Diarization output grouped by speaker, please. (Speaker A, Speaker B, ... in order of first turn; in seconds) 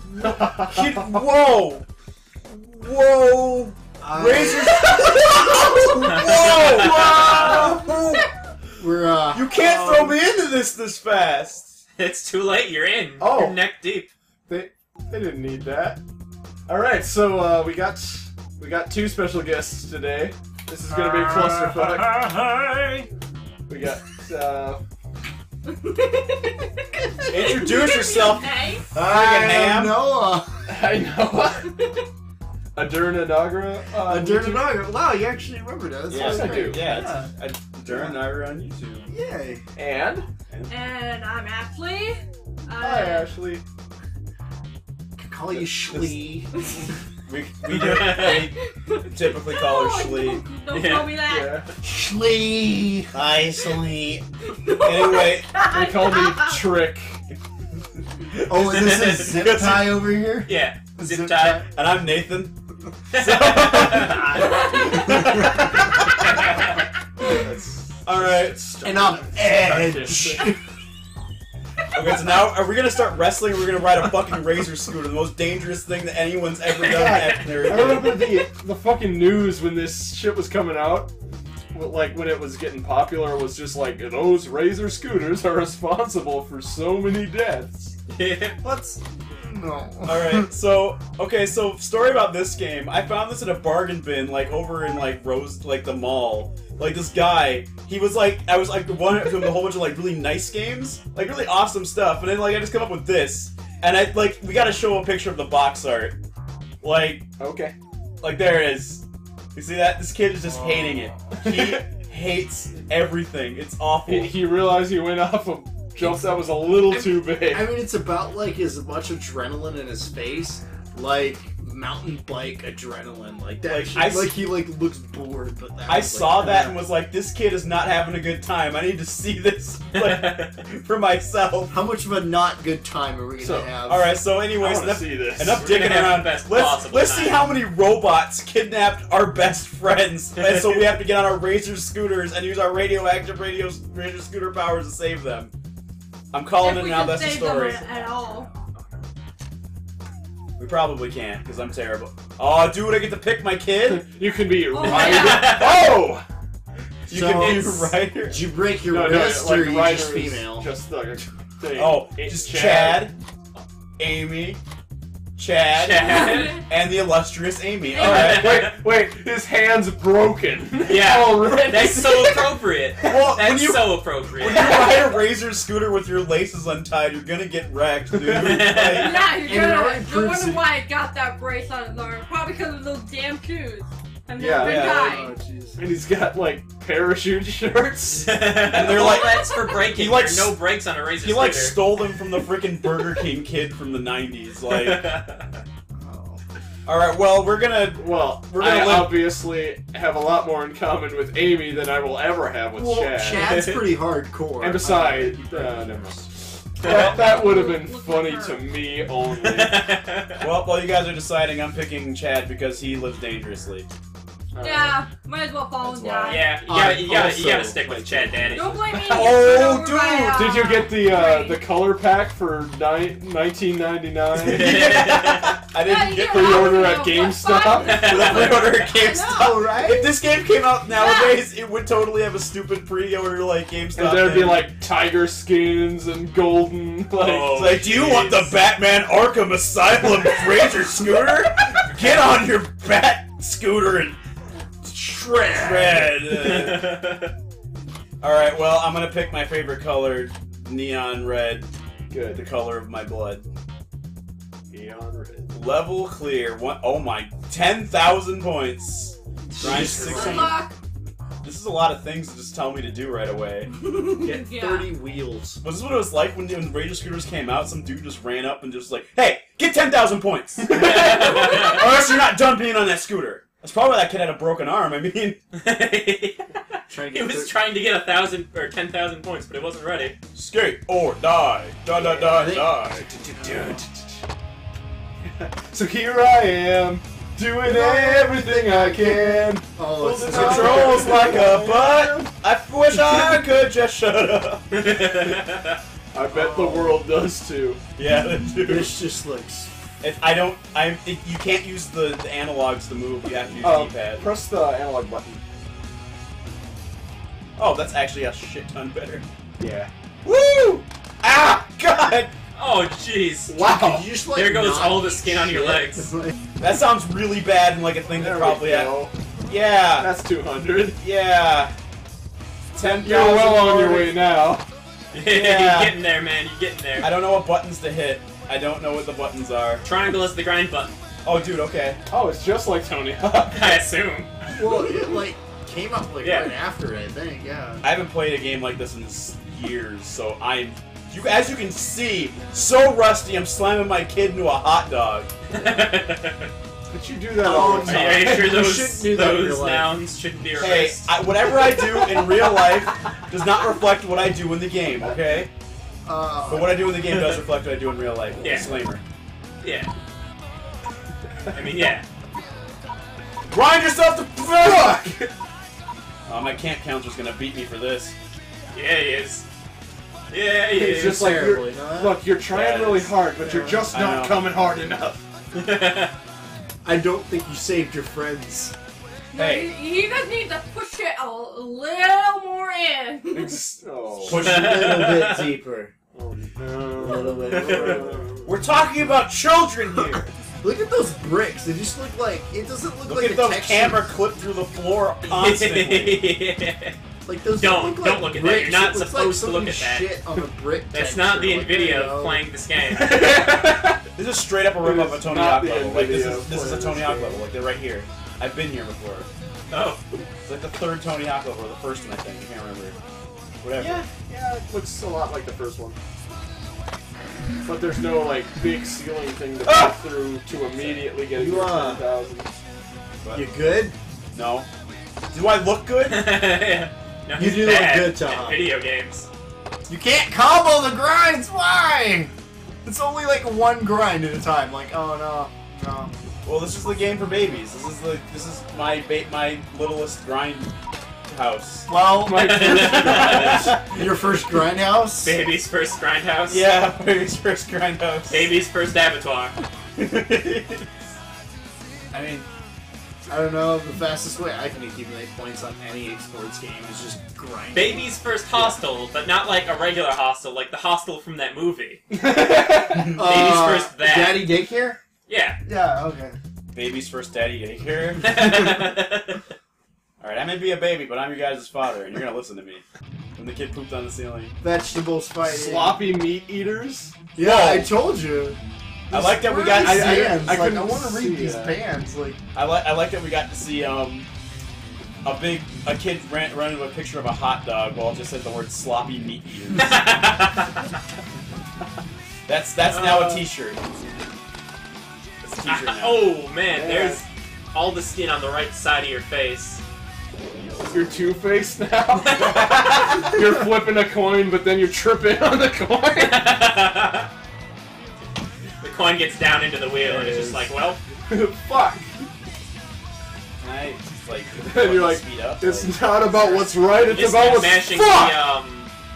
Speaker A: 0.7-1.9, 2.5-8.3, 9.3-11.7, 22.3-23.0, 27.3-30.0, 36.1-39.1, 40.5-40.8, 45.9-46.2, 47.3-48.6, 49.1-50.4, 54.8-55.6, 58.3-60.1, 61.7-62.6, 63.1-66.0, 68.0-68.6, 71.9-78.2, 90.1-106.2, 106.8-107.3, 108.2-114.3, 123.7-124.4, 125.9-131.8, 133.8-145.5, 146.3-148.5, 150.6-154.0, 154.8-155.3, 157.1-158.4, 161.8-163.2, 164.0-164.6, 165.4-168.7, 173.0-179.3, 184.6-185.1, 188.6-190.6, 191.2-195.1, 196.9-199.3, 206.9-207.2, 210.4-213.9, 215.8-217.4, 218.9-220.7, 224.3-226.9, 228.0-234.7, 237.5-244.2, 245.5-246.9, 248.2-251.7, 252.2-253.5, 255.5-260.7, 261.4-263.7, 265.6-275.4, 280.3-283.1, 290.2-294.6, 298.0-298.9, 300.0-304.2, 307.6-309.2, 310.2-312.3, 316.6-319.0, 319.5-320.1, 321.0-321.7, 322.8-324.1, 325.3-326.0, 327.0-329.8, 331.2-332.0, 337.8-345.3, 350.6-355.5, 356.5-359.0, 363.5-365.1, 366.3-368.1, 372.5-373.1, 373.9-374.5, 379.4-379.8, 384.2-385.1, 388.4-390.3, 393.1-396.3, 404.2-409.3, 410.5-413.0, 413.6-414.1, 419.6-420.0, 420.8-421.0, 424.3-424.7, 425.3-426.3, 436.4-440.7, 441.3-441.9, 443.2-444.0, 446.5-448.5, 450.0-450.9, 466.7-468.6, 470.2-472.8, 473.4-474.6, 477.4-477.9, 479.1-480.7, 482.5-484.3, 485.2-489.9, 492.5-493.8, 495.4-496.4, 510.2-510.6, 513.6-516.8
Speaker B: 4.0-7.8, 8.8-9.5, 20.9-21.9, 28.9-30.5, 34.0-37.3, 37.9-38.2, 39.1-39.6, 45.2-46.7, 51.8-54.2, 58.5-61.7, 64.5-65.7, 68.8-70.6, 88.6-90.5, 110.6-111.2, 116.0-126.8, 131.7-134.3, 157.1-160.7, 179.4-180.7, 184.9-185.8, 196.0-196.4, 202.7-206.3, 216.7-218.1, 229.3-230.2, 244.8-246.2, 259.6-260.6, 264.0-265.6, 276.9-277.6, 282.1-283.9, 287.6-291.4, 292.9-293.3, 296.2-297.1, 298.7-299.7, 313.5-316.3, 334.6-337.9, 347.4-350.1, 356.1-356.8, 370.8-372.3, 373.4-374.0, 376.8-378.8, 384.2-385.9, 386.9-388.3, 390.6-394.0, 397.2-402.5, 421.2-422.0, 423.3-423.9, 427.4-428.6, 429.9-432.3, 432.9-436.2, 441.9-443.3, 443.9-445.4, 452.1-452.5, 453.3-458.8, 463.1-465.0, 465.6-466.4, 474.6-476.2, 477.3-478.6, 479.1-482.4
Speaker C: 6.0-7.7, 9.7-10.2, 12.0-14.1, 47.7-48.4, 50.7-51.2, 58.6-59.5, 60.5-61.7, 63.1-64.4, 66.2-66.5, 76.8-77.9, 88.1-88.6, 130.0-130.5, 135.6-137.5, 140.4-141.0, 154.8-155.9, 157.4-157.7, 165.7-166.6, 168.0-168.8, 170.8-174.9, 178.4-179.2, 188.2-191.8, 194.7-195.6, 203.3-203.8, 209.4-210.4, 216.3-219.3, 224.4-225.5, 227.8-228.9, 237.2-238.6, 246.3-247.3, 270.7-271.9, 275.6-280.2, 294.7-295.8, 312.6-313.6, 314.2-316.1, 325.1-327.1, 329.8-330.9, 333.5-334.3, 336.2-336.5, 345.5-346.5, 347.5-352.7, 357.0-357.4, 358.4-358.7, 359.6-359.9, 361.5-362.1, 368.7-369.5, 370.3-371.3, 375.5-376.1, 384.3-385.5, 387.5-388.0, 395.2-397.0, 397.5-403.7, 409.7-410.0, 426.1-429.3, 442.3-443.6, 445.2-446.6, 448.3-449.6, 457.7-462.0, 463.2-464.6, 465.3-465.6, 468.2-469.4, 489.8-490.7, 492.9-493.5, 495.7-499.8, 506.1-507.3, 508.8-511.0, 516.9-518.9
Speaker D: 7.6-8.3, 25.7-26.7, 27.3-28.9, 31.8-32.0, 40.7-43.3, 48.0-51.6, 54.5-56.5, 64.4-65.1, 146.6-148.5, 154.7-155.7, 166.1-166.6, 168.0-168.4, 178.9-185.3, 189.0-189.7, 206.8-208.8, 214.6-216.6, 218.6-221.7, 225.8-229.6, 230.9-231.4, 259.9-260.8, 263.9-264.9, 379.3-383.6
Speaker E: 13.2-13.6, 14.5-16.0, 16.7-22.2, 23.7-24.8, 30.7-31.8, 32.8-34.8, 36.2-36.8, 39.8-40.3, 42.8-43.6, 51.3-51.7, 55.7-57.2, 67.3-70.5, 77.1-81.1, 81.7-88.0, 107.4-107.8, 111.3-111.8, 114.1-117.7, 133.4-133.8, 134.6-135.7, 153.9-156.2, 158.9-163.1, 168.0-173.1, 174.4-175.1, 178.1-178.5, 184.4-185.2, 185.8-188.3, 198.0-203.5, 204.6-206.2, 206.8-209.8, 214.5-215.0, 218.3-218.8, 220.3-224.7, 226.3-227.9, 234.0-237.6, 252.1-252.4, 254.7-255.5, 283.4-283.8, 285.4-292.3, 296.1-297.8, 303.6-305.4, 309.6-309.9, 313.5-314.1, 318.2-319.1, 320.0-321.0, 323.0-324.7, 332.1-333.8, 346.9-348.6, 370.8-375.2, 383.3-384.4, 386.1-388.5, 402.9-403.9, 404.8-407.4, 413.8-416.0, 417.6-422.5, 442.3-443.7, 462.1-463.1, 475.5-477.2, 479.9-481.7, 496.7-497.2, 500.9-506.4, 511.3-512.1, 514.7-518.3